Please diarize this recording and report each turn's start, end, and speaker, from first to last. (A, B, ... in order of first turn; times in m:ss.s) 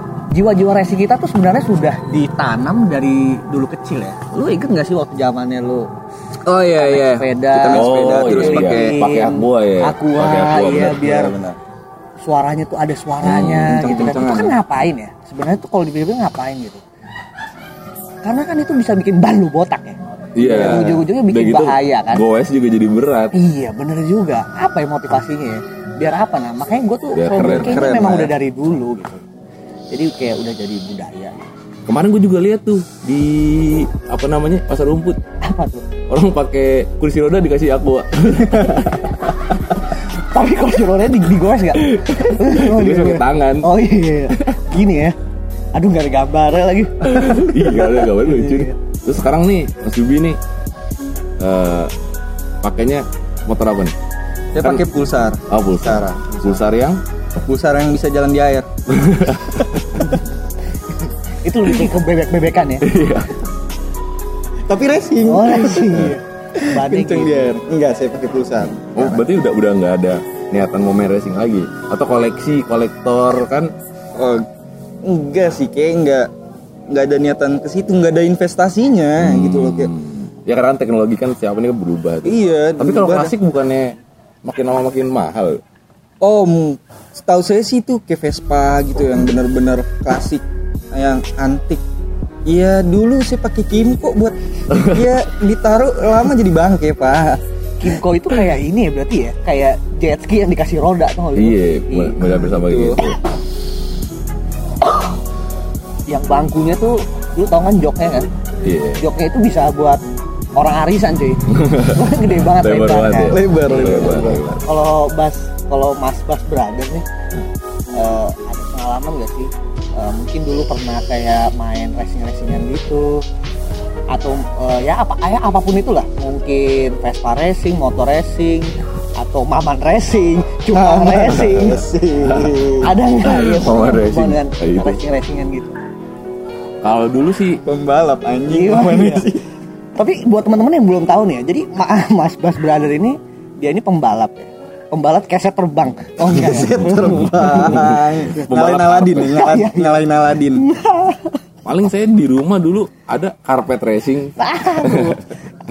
0:00.3-0:05.9 A
0:06.4-0:11.2 B
0:06.6-0:11.4 A
0:07.5-0:08.9 C
0:11.0-0:11.6 C
0:12.2-0:16.8 A
0:13.2-0:13.7 B
0:13.4-0:14.6 C
0:18.2-0:22.2 A
0:20.4-0:23.4 B
0:20.4-0:20.9 C
0:23.3-0:29.2 A
0:27.1-0:27.9 B
0:27.5-0:28.3 C
0:29.9-0:31.4 A
0:31.9-0:35.2 B
0:35.4-0:35.9 A
0:36.1-0:39.1 B
0:40.0-0:45.2 A
0:41.7-0:43.7 B
0:45.7-0:48.7 A
0:47.0-0:50.4 B
0:51.4-0:51.9 B
0:52.6-0:54.0 B
0:54.5-0:56.7 C
0:55.5-0:57.0 B
0:57.4-0:58.7 C
0:58.9-1:00.1 B
1:00.9-1:02.9 A
1:02.8-1:03.4 B
1:04.7-1:09.3 C
1:05.2-1:07.5 A
1:08.7-1:13.7 B
1:14.2-1:14.5 C
1:15.0-1:16.3 C
1:16.9-1:19.9 C
1:19.2-1:25.6 B
1:22.2-1:23.3 C
1:26.2-1:31.8 C
1:32.5-1:37.4 C
1:34.7-1:35.0 B
1:37.8-1:42.3 A
1:41.4-1:43.2 B
1:42.5-1:43.0 C
1:44.8-1:45.1 A
1:46.1-1:48.3 A
1:48.6-1:49.1 B
1:49.0-1:50.0 A
1:50.6-1:53.4 A
1:51.5-1:54.7 B
1:53.3-1:54.4 C
1:54.0-1:57.1 A
1:57.9-2:03.2 A
2:04.1-2:11.8 A
2:10.7-2:13.0 C
2:12.2-2:12.5 B
2:12.8-2:15.8 A
2:13.2-2:15.0 B
2:16.8-2:17.6 B
2:17.6-2:19.4 C
2:18.5-2:19.3 A
2:20.0-2:27.7 A
2:26.2-2:30.7 C
2:27.1-2:29.5 B
2:29.2-2:31.4 A
2:31.6-2:35.2 B
2:34.4-2:35.3 A